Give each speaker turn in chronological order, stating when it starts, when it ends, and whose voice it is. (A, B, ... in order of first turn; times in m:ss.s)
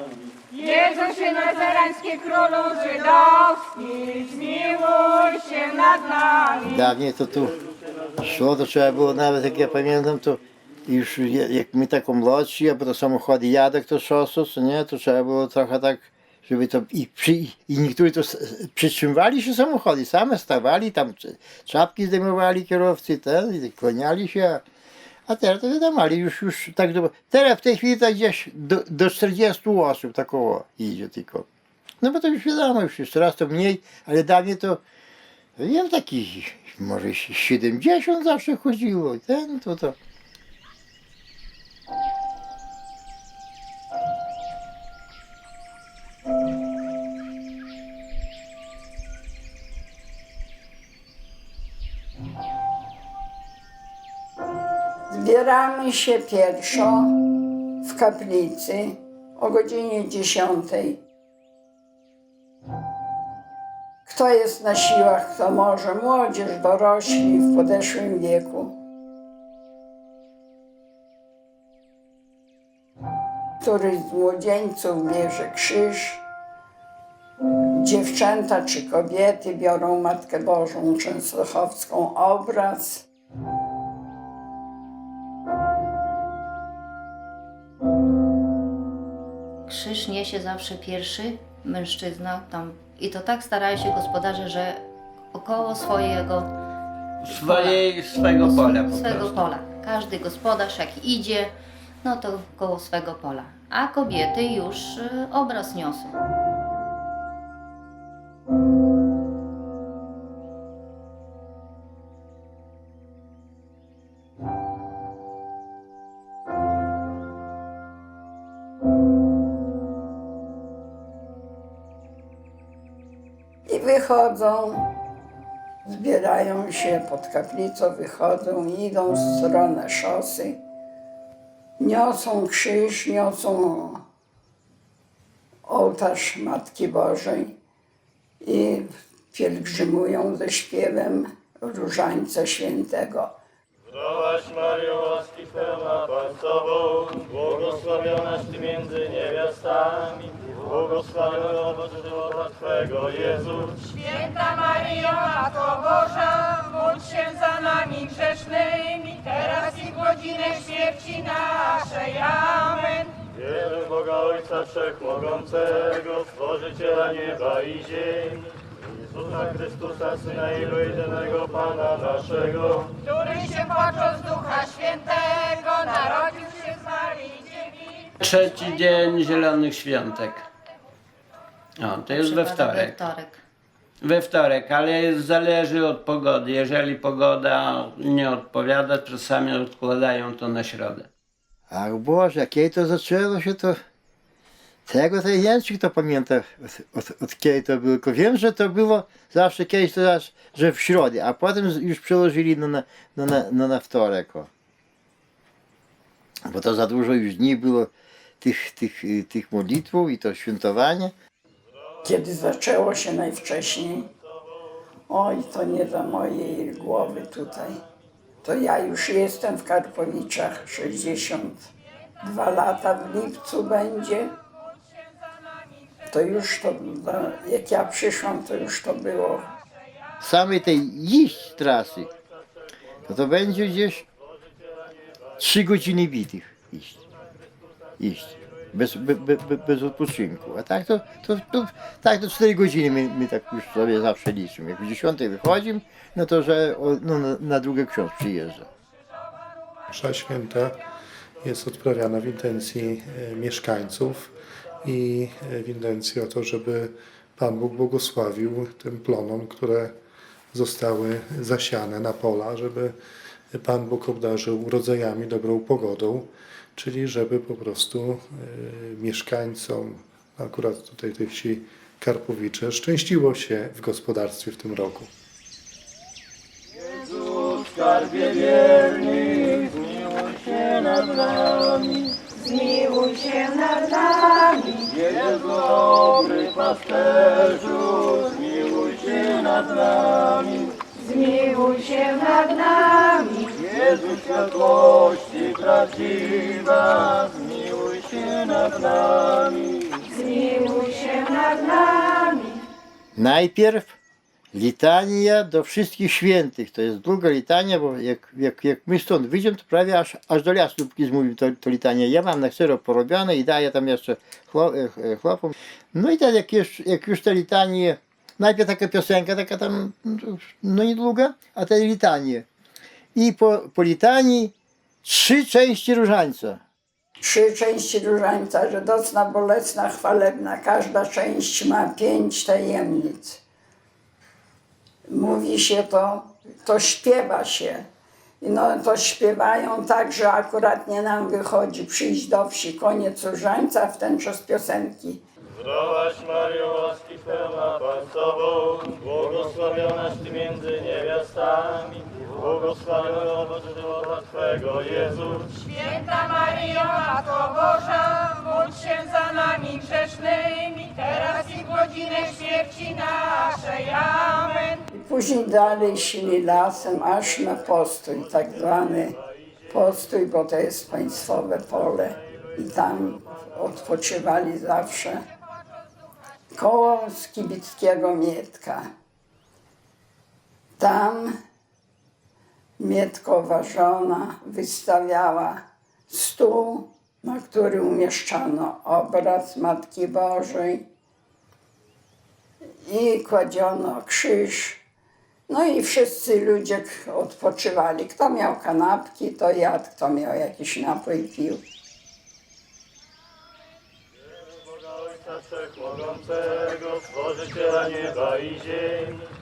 0:00.5-0:06.6 A
0:06.6-0:07.6 B
0:08.2-0:24.6 B
0:25.3-0:31.4 B
0:32.0-0:34.8 B
0:35.6-0:40.0 B
0:55.1-0:57.1 C
0:57.8-1:01.0 C
1:04.1-1:08.7 C
1:13.6-1:16.2 C
1:17.8-1:23.0 C
1:29.7-1:34.8 D
1:35.3-1:36.5 D
1:37.2-1:39.5 E
1:37.3-1:37.8 D
1:38.4-1:46.1 D
2:03.7-2:04.8 C
2:05.8-2:10.6 C
2:11.8-2:14.0 C
2:15.7-2:17.6 C
2:18.4-2:23.4 C
2:24.0-2:33.7 F
2:33.9-2:43.2 A
2:43.3-2:48.4 F
2:49.1-2:52.9 F
2:53.1-2:57.9 A
2:58.2-3:00.4 E
3:01.8-3:03.1 E
3:02.1-3:03.4 D
3:04.0-3:11.1 E
3:11.7-3:13.8 B
3:14.9-3:24.5 B
3:26.4-3:27.9 B
3:28.4-3:31.1 B
3:32.0-3:34.1 C
3:35.1-3:37.8 C
3:38.4-3:44.4 C
3:46.1-3:49.5 C
3:50.2-3:52.1 B
3:53.0-3:54.0 B
3:55.4-3:57.0 B
3:58.0-4:08.7 B
4:09.9-4:10.8 G
4:11.4-4:19.9 G
4:20.5-4:22.9 G
4:23.5-4:35.1 G
4:42.4-4:44.9 A
4:51.0-4:53.6 A
5:00.0-5:02.5 A
5:03.1-5:03.9 B
5:04.5-5:22.4 B
5:23.1-5:24.5 B
5:25.0-5:26.6 B
5:27.2-5:33.4 C
5:35.1-5:37.8 C
5:38.4-5:45.2 C
5:45.7-5:55.5 F
5:55.6-6:04.8 A
6:04.9-6:09.2 C
6:09.7-6:15.2 C
6:16.5-6:18.9 C
6:20.8-6:21.4 C
6:22.8-6:30.8 C
6:32.8-6:34.8 C
6:35.5-6:41.6 C
6:45.0-6:49.2 F